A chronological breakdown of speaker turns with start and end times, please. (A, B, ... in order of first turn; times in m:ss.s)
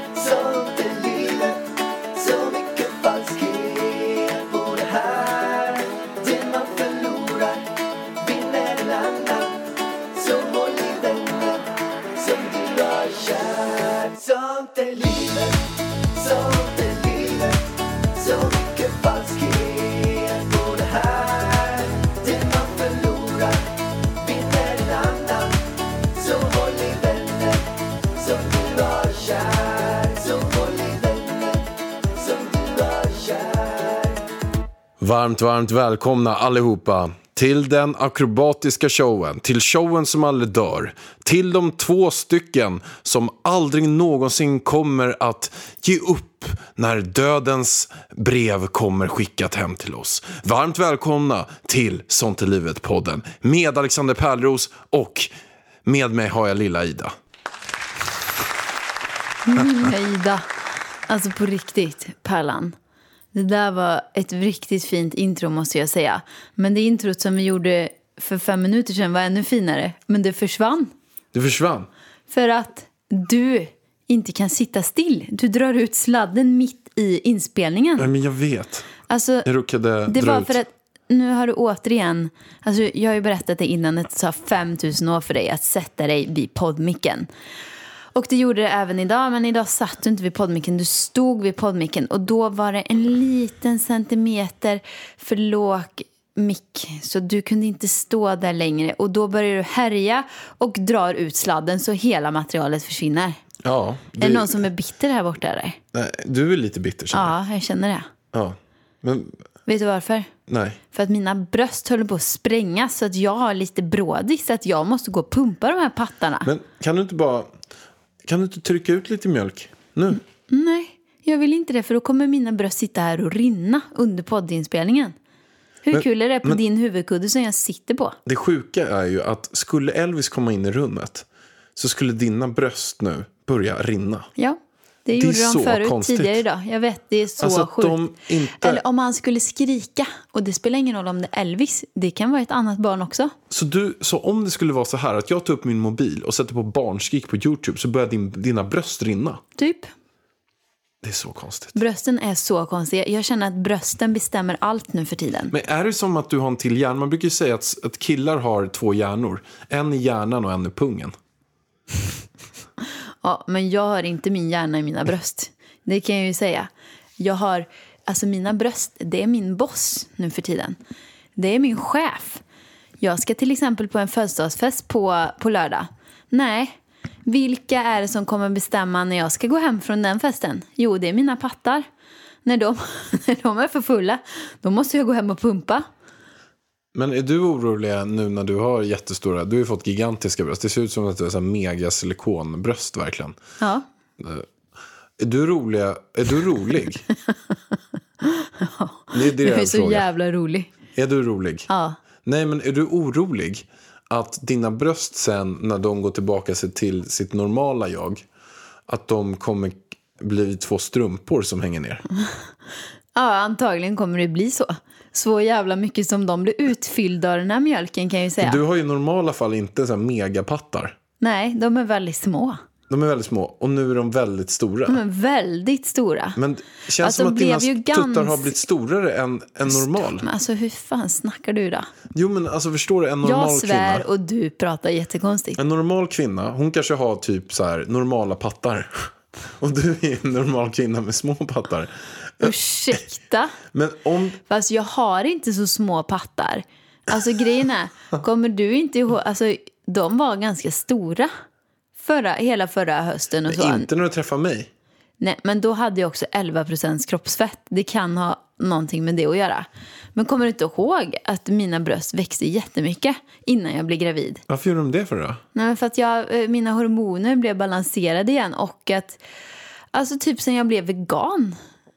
0:00.1-0:01.6 A
0:02.2-0:07.7 A
0:08.2-0:15.6 A
0:16.1-0:17.6 A
0:18.1-0:23.7 A
0:24.2-0:25.6 A
0:26.1-0:34.2 A
0:35.0-0:55.3 B
0:55.8-0:57.1 B
0:59.5-1:00.5 C
1:01.1-1:02.8 C
1:03.3-1:10.9 C
1:11.3-1:11.9 B
1:12.3-1:18.1 C
1:18.0-1:18.9 B
1:19.1-1:19.5 C
1:19.4-1:20.6 B
1:20.1-1:27.3 C
1:28.2-1:43.4 C
1:43.6-1:44.6 B
1:44.2-1:45.8 C
1:45.9-1:47.4 B
1:47.1-1:48.1 C
1:48.3-1:49.4 B
1:49.7-1:50.3 C
1:50.5-1:50.8 B
1:50.9-1:56.5 C
1:56.4-1:57.5 B
1:58.2-2:00.2 B
2:00.5-2:05.2 C
2:05.8-2:08.2 C
2:05.9-2:06.6 B
2:08.2-2:14.3 B
2:14.4-2:18.0 C
2:15.2-2:16.4 B
2:17.4-2:18.8 B
2:18.6-2:23.3 C
2:23.5-2:29.4 B
2:29.6-2:29.9 C
2:31.0-2:31.8 B
2:31.8-2:35.5 C
2:35.5-2:41.2 B
2:43.2-2:50.8 C
2:51.4-2:52.4 C
2:53.0-2:56.7 C
2:57.3-3:01.8 C
3:02.4-3:05.9 C
3:06.9-3:13.4 B
3:13.6-3:13.8 C
3:14.2-3:14.5 B
3:15.2-3:17.0 B
3:18.2-3:20.7 C
3:19.1-3:20.1 B
3:21.0-3:21.7 B
3:21.7-3:22.0 C
3:22.2-3:28.2 B
3:28.9-3:32.0 B
3:33.2-3:38.6 C
3:38.4-3:41.0 B
3:41.2-3:42.6 C
3:42.9-3:45.0 B
3:44.9-3:46.4 C
3:46.4-3:50.3 B
3:47.0-3:48.6 C
3:49.7-3:51.9 C
3:52.1-3:54.1 B
3:53.2-3:55.6 C
3:55.6-4:03.0 B
4:02.4-4:03.6 C
4:03.7-4:04.4 B
4:04.5-4:11.3 C
4:12.0-4:13.9 C
4:13.5-4:14.7 B
4:15.2-4:24.4 C
4:24.5-4:25.4 B
4:25.6-4:29.2 C
4:29.9-4:31.6 C